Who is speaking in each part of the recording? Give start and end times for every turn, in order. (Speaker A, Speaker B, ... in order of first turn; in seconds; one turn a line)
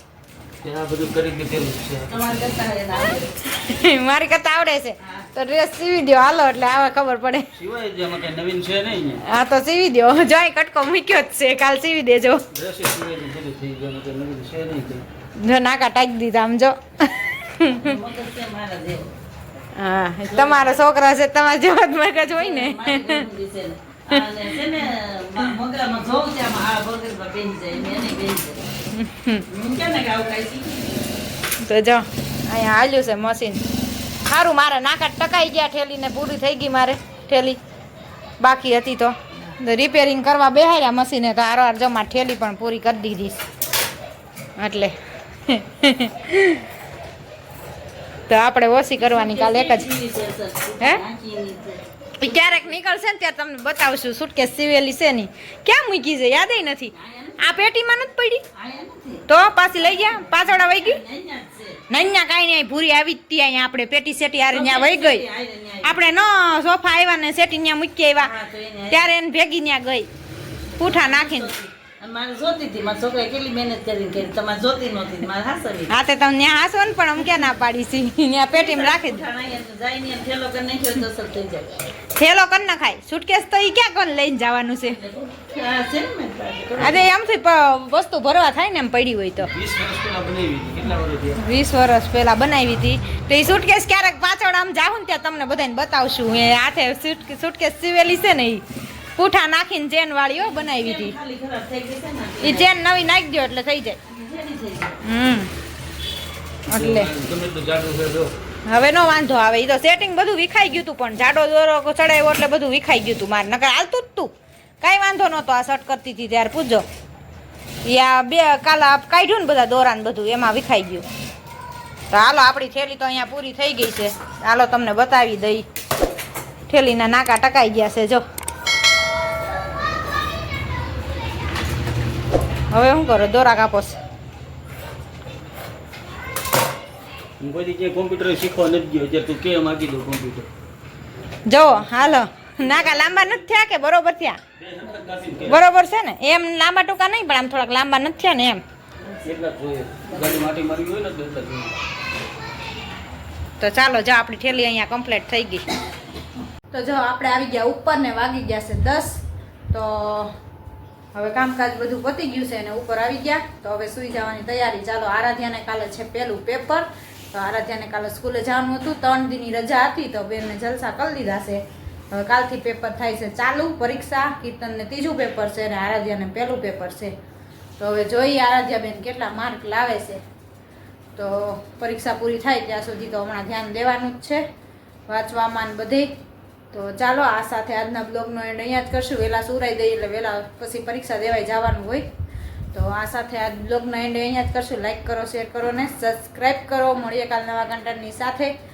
Speaker A: 0.6-2.1
Speaker B: 2.0-3.3
Speaker C: 3.5-7.5
Speaker A: 7.5-9.2
Speaker C: 9.2-12.4
Speaker A: 12.5-15.1
Speaker C: 15.4-17.9
Speaker B: 17.6-19.1
Speaker C: 19.7-23.3
Speaker B: 20.3-20.8
Speaker B: 22.2-28.7
Speaker C: 28.9-29.4
Speaker B: 29.5-30.9
Speaker C: 31.6-33.6
Speaker C: 34.2-37.6
Speaker C: 38.4-43.4
Speaker C: 44.6-44.9
Speaker C: 45.5-46.6
Speaker C: 48.3-49.9
Speaker B: 49.0-52.6
Speaker C: 52.2-58.4
Speaker B: 57.0-57.6
Speaker B: 58.5-61.8
Speaker C: 59.3-61.0
Speaker C: 61.9-65.2
Speaker B: 64.5-66.0
Speaker C: 65.8-68.3
Speaker B: 68.2-69.1
Speaker C: 68.9-70.1
Speaker C: 70.8-71.5
Speaker B: 70.8-75.9
Speaker C: 75.9-79.2
Speaker B: 77.2-77.5
Speaker B: 78.5-81.8
Speaker C: 82.2-85.0
Speaker B: 85.0-87.1
Speaker C: 86.8-89.5
Speaker A: 89.4-91.4
Speaker C: 91.4-98.6
Speaker C: 99.2-101.2
Speaker B: 100.3-102.7
Speaker C: 102.4-104.0
Speaker B: 104.1-105.0
Speaker C: 105.0-105.5
Speaker C: 106.7-107.1
Speaker A: 106.7-108.3
Speaker C: 108.7-116.8
Speaker C: 117.8-121.0
Speaker C: 122.1-125.7
Speaker C: 126.7-128.2
Speaker C: 132.7-134.0
Speaker A: 137.4-140.5
Speaker C: 141.5-144.4
Speaker A: 144.6-145.6
Speaker C: 145.4-148.6
Speaker A: 149.2-151.7
Speaker C: 153.6-155.6
Speaker C: 156.7-160.3
Speaker C: 161.1-177.1
Speaker C: 177.8-180.2
Speaker C: 181.2-184.4
Speaker C: 185.1-186.1
Speaker C: 186.7-192.1
Speaker C: 192.7-198.5